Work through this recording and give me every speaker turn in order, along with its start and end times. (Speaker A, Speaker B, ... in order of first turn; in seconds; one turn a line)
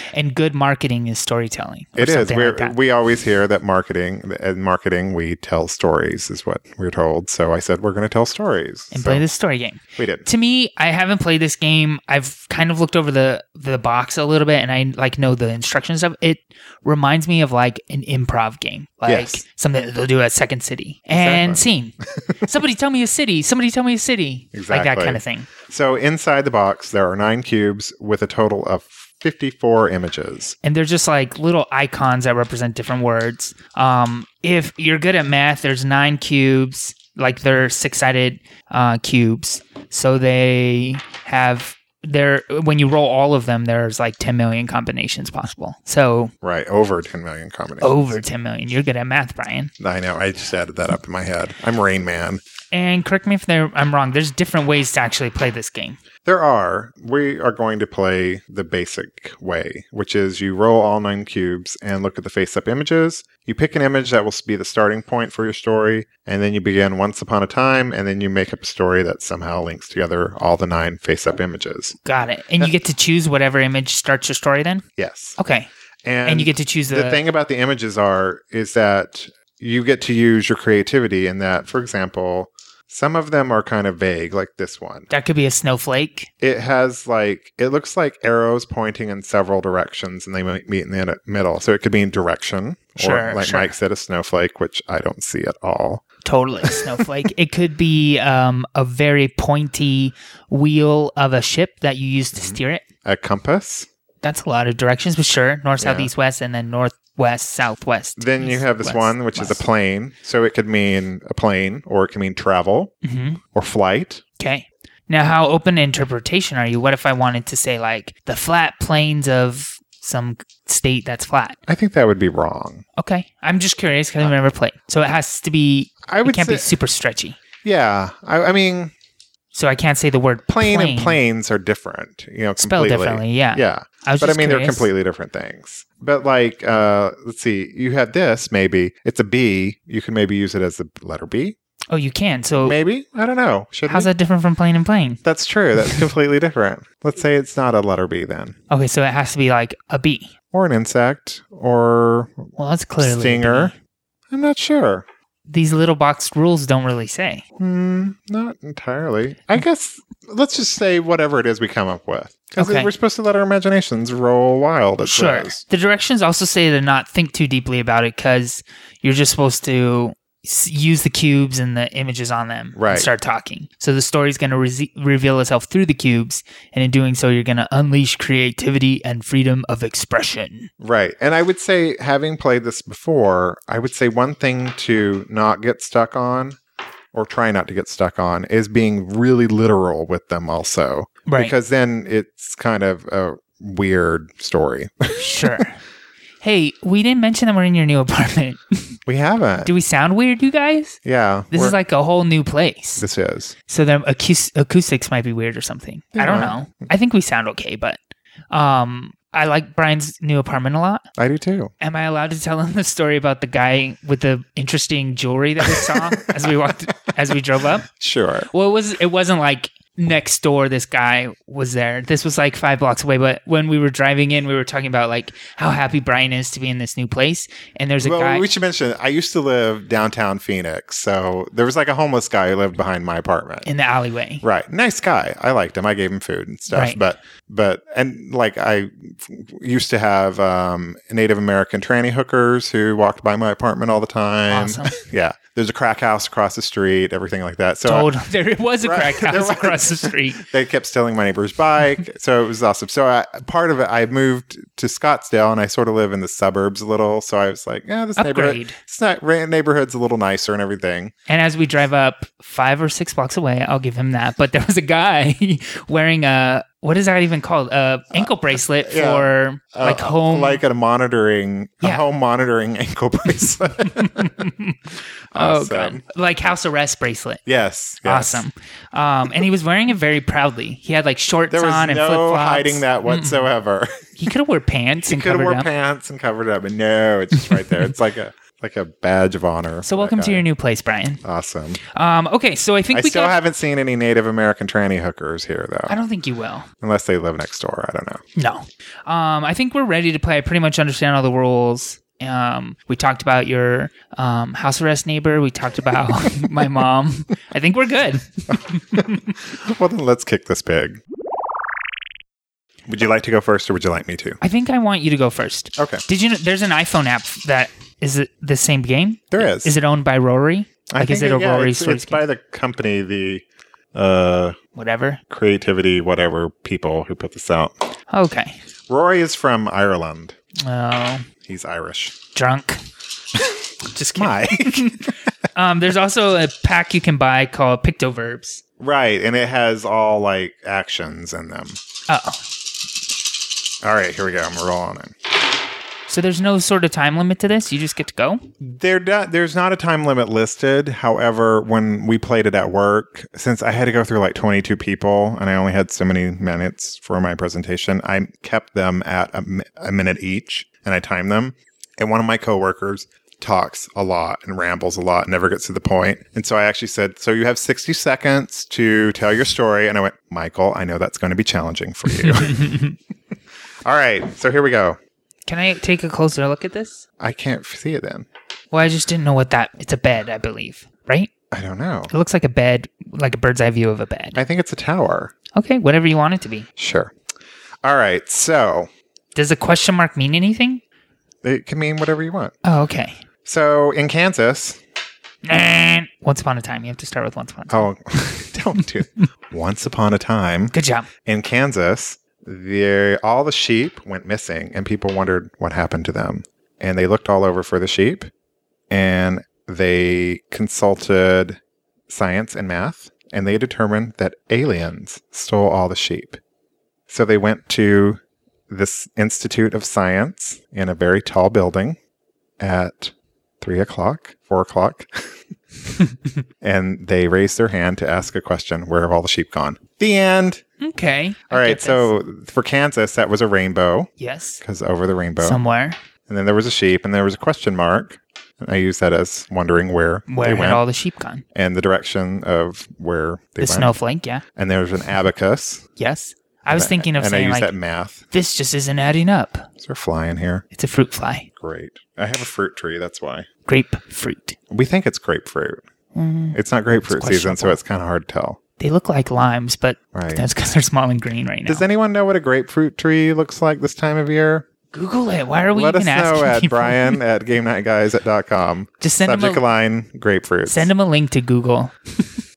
Speaker A: 0.1-2.8
Speaker B: 2.0-9.3
Speaker A: 8.9-25.5
Speaker B: 10.0-10.3
Speaker B: 19.1-19.4
Speaker B: 21.1-21.6
Speaker B: 24.5-30.6
Speaker A: 30.6-46.3
Speaker B: 46.4-48.2
Speaker A: 47.8-49.7
Speaker B: 49.8-52.4
Speaker A: 52.7-56.0
Speaker B: 56.2-72.0
Speaker A: 72.0-74.8
Speaker B: 75.0-75.4
Speaker A: 75.4-75.7
Speaker B: 76.0-85.1
Speaker A: 76.2-77.2
Speaker A: 85.1-86.3
Speaker B: 86.4-96.0
Speaker A: 93.0-93.7
Speaker A: 96.2-102.8
Speaker B: 96.6-97.0
Speaker B: 102.3-103.9
Speaker A: 104.2-109.6
Speaker B: 105.8-106.1
Speaker B: 108.2-112.9
Speaker A: 113.0-113.4
Speaker B: 113.5-114.2
Speaker A: 114.4-121.6
Speaker B: 121.7-122.8
Speaker A: 123.0-127.4
Speaker B: 126.1-126.7
Speaker B: 127.6-128.9
Speaker A: 129.5-131.2
Speaker B: 130.5-141.6
Speaker A: 132.6-134.9
Speaker A: 141.9-142.8
Speaker B: 142.6-144.1
Speaker A: 143.9-145.2
Speaker B: 145.2-148.6
Speaker A: 148.7-150.3
Speaker B: 150.5-152.5
Speaker A: 152.6-153.7
Speaker B: 153.0-153.7
Speaker B: 154.3-155.0
Speaker A: 155.5-157.4
Speaker B: 157.6-165.6
Speaker A: 162.6-162.9
Speaker A: 165.0-180.7
Speaker B: 172.8-173.1
Speaker B: 180.8-186.6
Speaker B: 187.1-195.6
Speaker A: 191.3-191.5
Speaker A: 195.2-195.8
Speaker A: 196.4-199.0
Speaker B: 199.1-199.7
Speaker A: 199.6-201.0
Speaker B: 201.1-201.8
Speaker A: 201.5-203.1
Speaker B: 203.0-203.5
Speaker A: 203.7-208.0
Speaker B: 206.2-206.6
Speaker A: 208.5-211.1
Speaker B: 211.2-211.7
Speaker A: 211.8-217.9
Speaker B: 215.6-216.5
Speaker B: 217.8-218.5
Speaker A: 218.5-228.5
Speaker B: 228.0-233.7
Speaker A: 233.7-234.4
Speaker B: 234.4-248.1
Speaker A: 236.7-237.0
Speaker A: 244.5-245.0
Speaker A: 247.8-250.4
Speaker B: 248.8-261.1
Speaker A: 258.2-258.8
Speaker A: 261.3-270.6
Speaker B: 268.8-274.3
Speaker A: 273.9-274.8
Speaker B: 275.3-276.0
Speaker A: 275.3-277.4
Speaker B: 277.5-278.4
Speaker A: 278.1-283.5
Speaker B: 281.5-284.0
Speaker A: 284.2-285.7
Speaker B: 285.1-290.5
Speaker A: 289.8-291.2
Speaker B: 291.2-291.8
Speaker A: 291.9-293.4
Speaker B: 292.9-296.0
Speaker A: 295.9-296.7
Speaker B: 296.8-298.2
Speaker A: 298.4-309.3
Speaker B: 308.9-311.0
Speaker B: 312.9-314.4
Speaker A: 314.4-322.2
Speaker B: 315.8-316.0
Speaker B: 319.3-319.8
Speaker B: 320.9-324.6
Speaker A: 324.8-325.2
Speaker B: 325.3-327.8
Speaker A: 328.1-328.6
Speaker B: 328.9-330.4
Speaker A: 330.6-331.3
Speaker B: 331.4-332.2
Speaker A: 332.4-332.8
Speaker A: 333.9-338.6
Speaker B: 334.1-335.1
Speaker B: 338.8-341.8
Speaker A: 342.1-342.4
Speaker B: 343.8-345.1
Speaker A: 346.1-348.5
Speaker B: 348.6-372.7
Speaker A: 372.1-373.0
Speaker B: 373.9-375.0
Speaker A: 375.5-377.0
Speaker B: 377.2-378.3
Speaker A: 378.7-381.3
Speaker B: 381.5-382.1
Speaker A: 382.1-384.4
Speaker B: 384.4-385.3
Speaker A: 385.5-386.7
Speaker B: 386.8-387.1
Speaker B: 387.8-388.9
Speaker A: 389.4-390.8
Speaker B: 391.4-392.6
Speaker A: 392.6-393.2
Speaker B: 393.4-394.8
Speaker A: 395.4-397.9
Speaker B: 397.7-400.7
Speaker A: 400.7-401.1
Speaker B: 401.2-408.3
Speaker B: 408.9-416.4
Speaker B: 417.1-422.0
Speaker B: 422.6-425.4
Speaker B: 426.6-430.6
Speaker A: 430.8-432.1
Speaker B: 431.5-434.1
Speaker A: 434.2-434.6
Speaker B: 434.6-435.6
Speaker A: 435.4-436.0
Speaker B: 436.3-440.8
Speaker A: 440.3-441.4
Speaker B: 441.6-444.0
Speaker A: 443.6-444.4
Speaker B: 444.6-445.8
Speaker A: 446.0-447.7
Speaker B: 446.7-448.2
Speaker A: 448.3-449.7
Speaker B: 449.8-450.6
Speaker A: 450.7-451.5
Speaker B: 451.6-453.5
Speaker A: 453.7-454.6
Speaker B: 454.7-455.8
Speaker A: 456.1-457.8
Speaker B: 456.5-458.6
Speaker A: 458.8-461.9
Speaker B: 460.1-460.5
Speaker B: 461.7-464.7
Speaker A: 464.9-467.2
Speaker B: 465.7-470.9
Speaker A: 469.0-469.6
Speaker A: 470.7-472.3